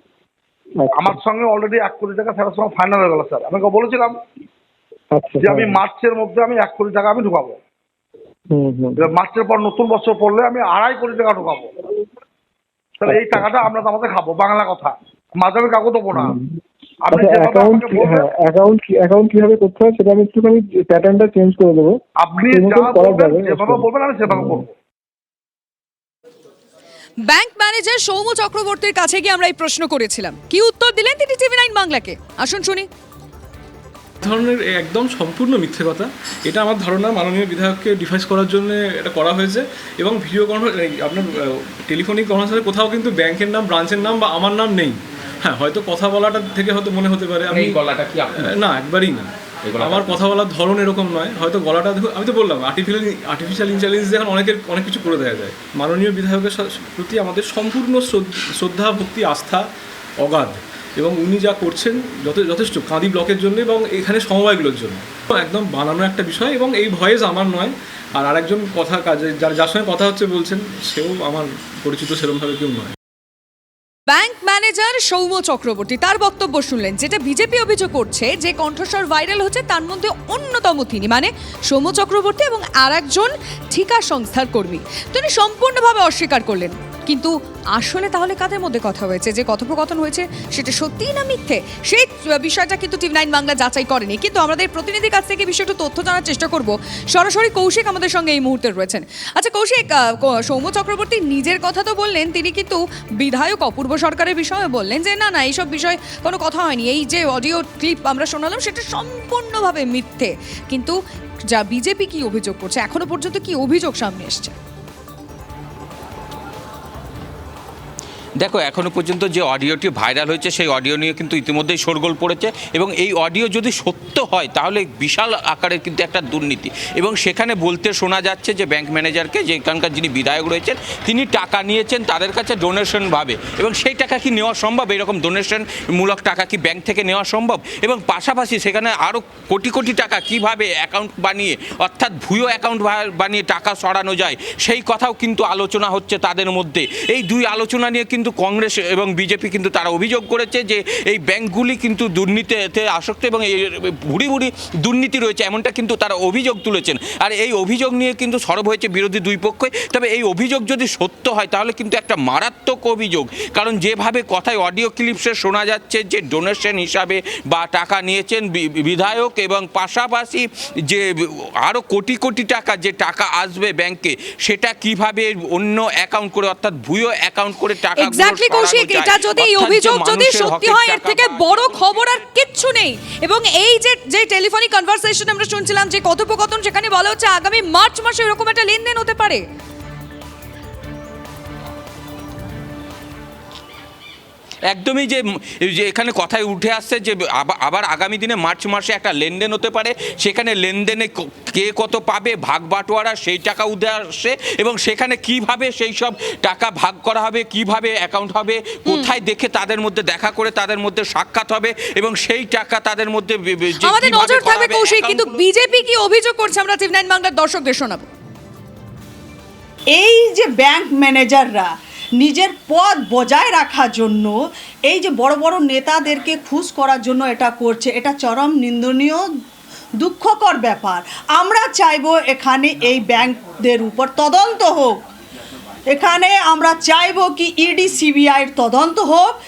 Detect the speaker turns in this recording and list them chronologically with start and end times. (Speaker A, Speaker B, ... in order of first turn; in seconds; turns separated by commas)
Speaker A: 0.8-1.2, Speaker B: 0.9-4.1, Speaker A: 5.1-5.8, Speaker B: 5.4-7.6, Speaker A: 8.5-9.1, Speaker B: 9.0-11.7, Speaker B: 13.0-16.4, Speaker A: 13.1-13.6, Speaker A: 16.1-16.6, Speaker B: 17.1-18.3, Speaker A: 17.1-21.9, Speaker B: 22.2-24.7, Speaker A: 22.5-24.6, Speaker C: 27.3-32.9, Speaker D: 34.2-47.8, Speaker E: 47.5-48.5, Speaker D: 48.3-59.7, Speaker E: 49.7-50.1, Speaker D: 60.2-73.0, Speaker C: 74.1-111.0, Speaker C: 111.5-114.5, Speaker E: 118.4-171.1, Speaker E: 171.6-182.2, Speaker C: 178.0-189.4, Speaker E: 194.7-215.4, Speaker C: 208.9-209.1, Speaker C: 213.8-218.1, Speaker F: 219.9-224.4, Speaker F: 224.9-229.2, Speaker F: 230.0-234.9, Speaker F: 235.9-239.3